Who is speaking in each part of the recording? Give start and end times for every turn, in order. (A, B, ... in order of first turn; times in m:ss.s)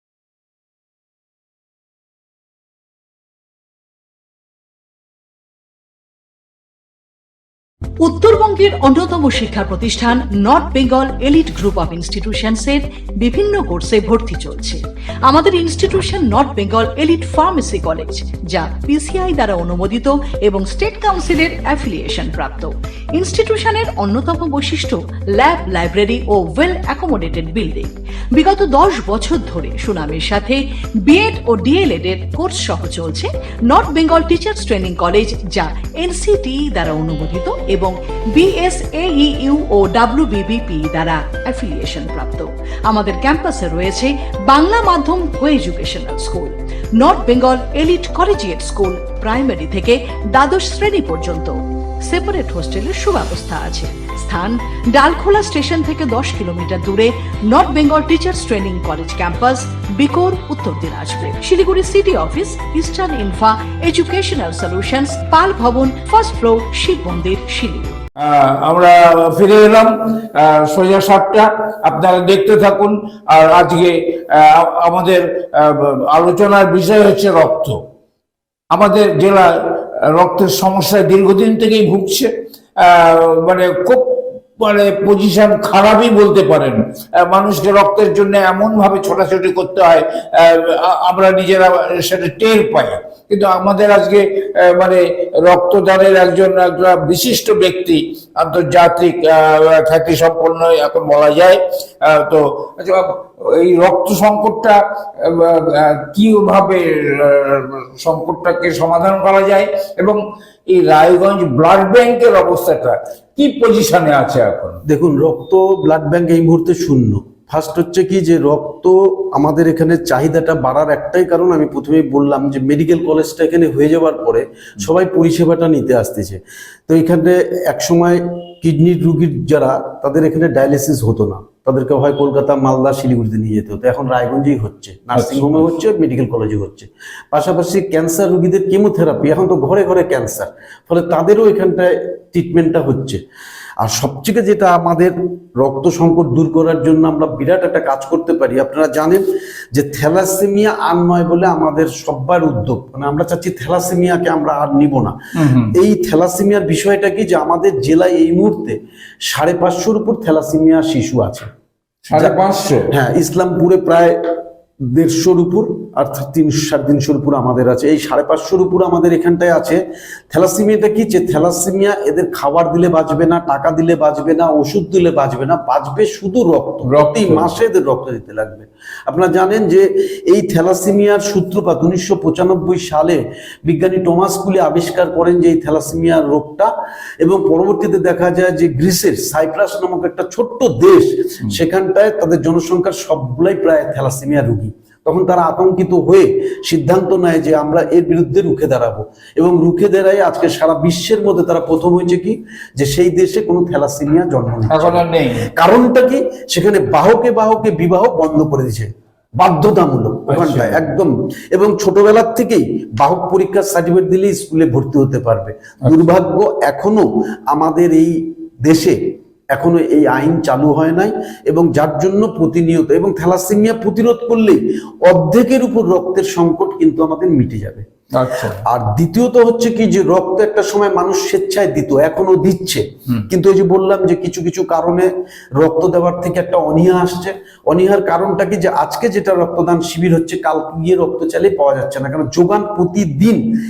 0:08.0-1:08.0 A
1:08.2-1:17.8 B
1:18.7-1:54.8 B
1:54.9-2:23.2 C
2:15.1-2:15.7 B
2:23.8-2:35.2 C
2:35.4-2:35.8 B
2:35.7-2:38.8 C
2:39.3-2:41.5 C
2:42.0-2:42.9 B
2:42.1-2:42.4 C
2:42.9-2:44.2 C
2:44.9-3:06.7 C
2:56.9-2:57.5 B
3:07.2-3:39.0 C
3:24.7-3:25.5 B
3:30.3-3:30.8 B
3:35.8-3:36.1 B
3:39.5-3:47.9 C
3:48.2-3:48.6 B
3:48.6-4:03.4 C